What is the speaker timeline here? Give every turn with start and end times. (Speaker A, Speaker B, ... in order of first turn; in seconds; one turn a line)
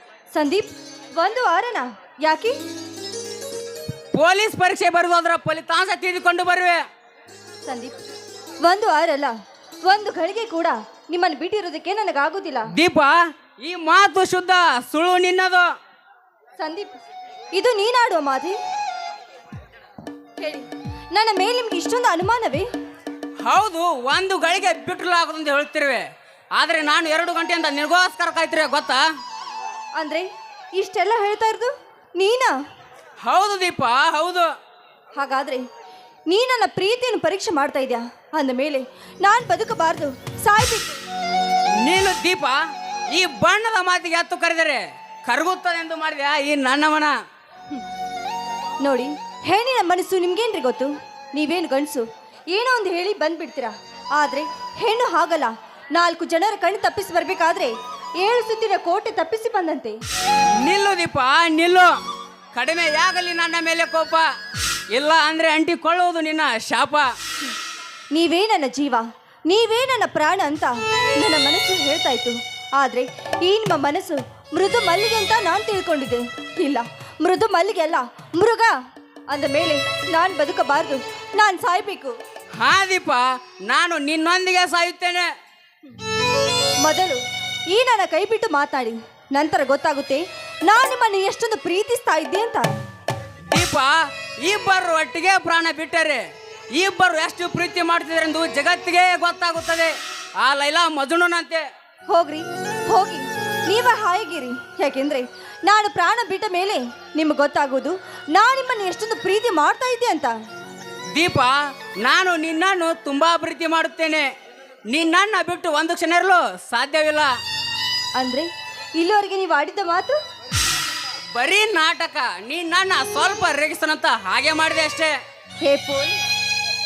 Speaker A: 0.3-2.6
Speaker B: 4.2-6.8
Speaker A: 7.7-8.0
Speaker A: 8.6-9.3
Speaker A: 9.9-12.7
Speaker B: 12.7-15.7
Speaker A: 16.6-17.0
Speaker A: 17.5-18.6
Speaker A: 20.4-22.7
Speaker B: 23.4-26.1
Speaker B: 26.6-29.0
Speaker A: 30.0-32.5
Speaker B: 33.2-34.5
Speaker A: 35.2-35.6
Speaker A: 36.3-41.0
Speaker B: 41.8-42.6
Speaker B: 43.1-47.2
Speaker A: 48.8-60.0
Speaker B: 60.5-62.0
Speaker B: 62.5-64.3
Speaker B: 64.9-67.1
Speaker A: 68.1-78.7
Speaker A: 79.3-82.2
Speaker B: 82.6-85.3
Speaker A: 86.8-87.2
Speaker A: 87.7-92.8
Speaker B: 93.5-96.2
Speaker B: 96.7-101.7
Speaker A: 102.1-110.4
Speaker B: 111.1-114.3
Speaker B: 114.9-117.3
Speaker A: 118.2-120.2
Speaker B: 121.4-125.2
Speaker A: 125.6-126.2